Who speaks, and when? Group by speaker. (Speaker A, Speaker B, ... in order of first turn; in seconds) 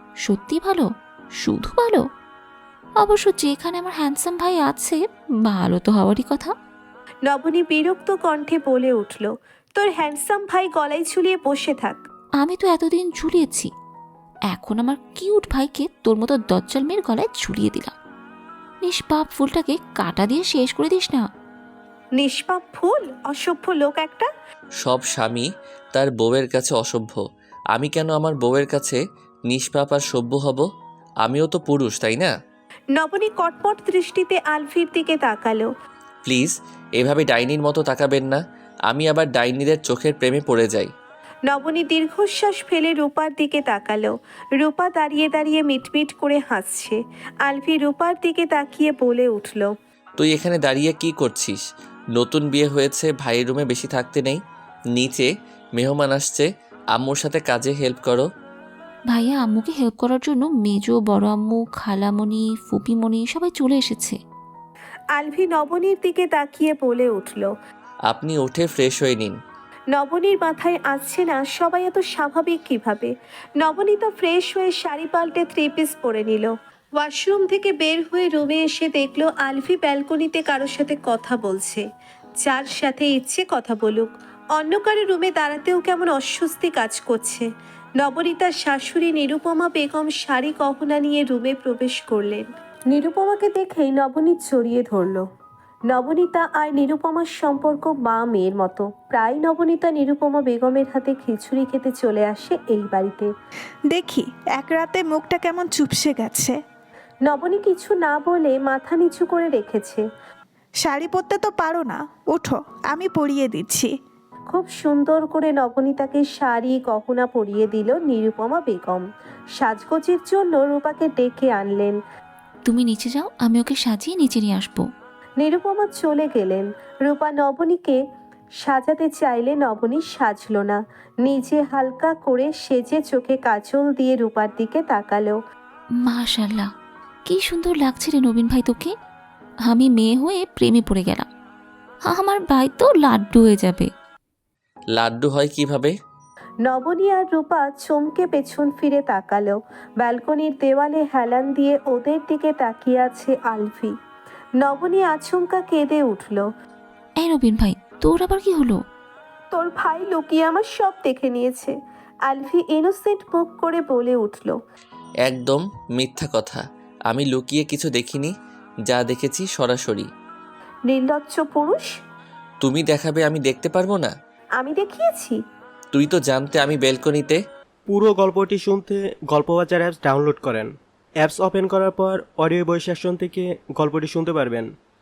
Speaker A: 0.2-2.0, 3.0-6.5, 12.4-13.7, 14.5-17.9, 18.8-21.2, 59.1-64.2, 122.6-124.9, 136.0-136.7, 137.2-138.9, 139.6-141.3, 142.0-143.9, 157.2-158.8
Speaker B: 7.3-12.0, 22.2-24.3, 33.0-35.7, 41.5-49.7, 65.2-67.5, 69.9-81.8, 82.4-87.5, 88.0-95.2, 95.9-103.3, 107.2-110.0, 114.5-119.0, 119.6-122.0, 125.4-128.0, 128.6-135.4, 146.7-153.9, 154.6-156.5, 159.5-161.8, 162.3-164.6, 170.9-171.9, 174.6-175.4
Speaker C: 24.8-27.2, 27.7-29.0, 29.5-30.6, 31.2-32.3, 36.2-40.9, 50.2-51.6, 52.2-54.4, 54.9-58.2, 68.1-69.4, 144.9-145.9, 165.2-168.3, 168.9-170.1, 172.6-174.1, 175.9-177.4
Speaker D: 103.9-106.5, 110.9-113.9
Speaker E: 177.9-184.7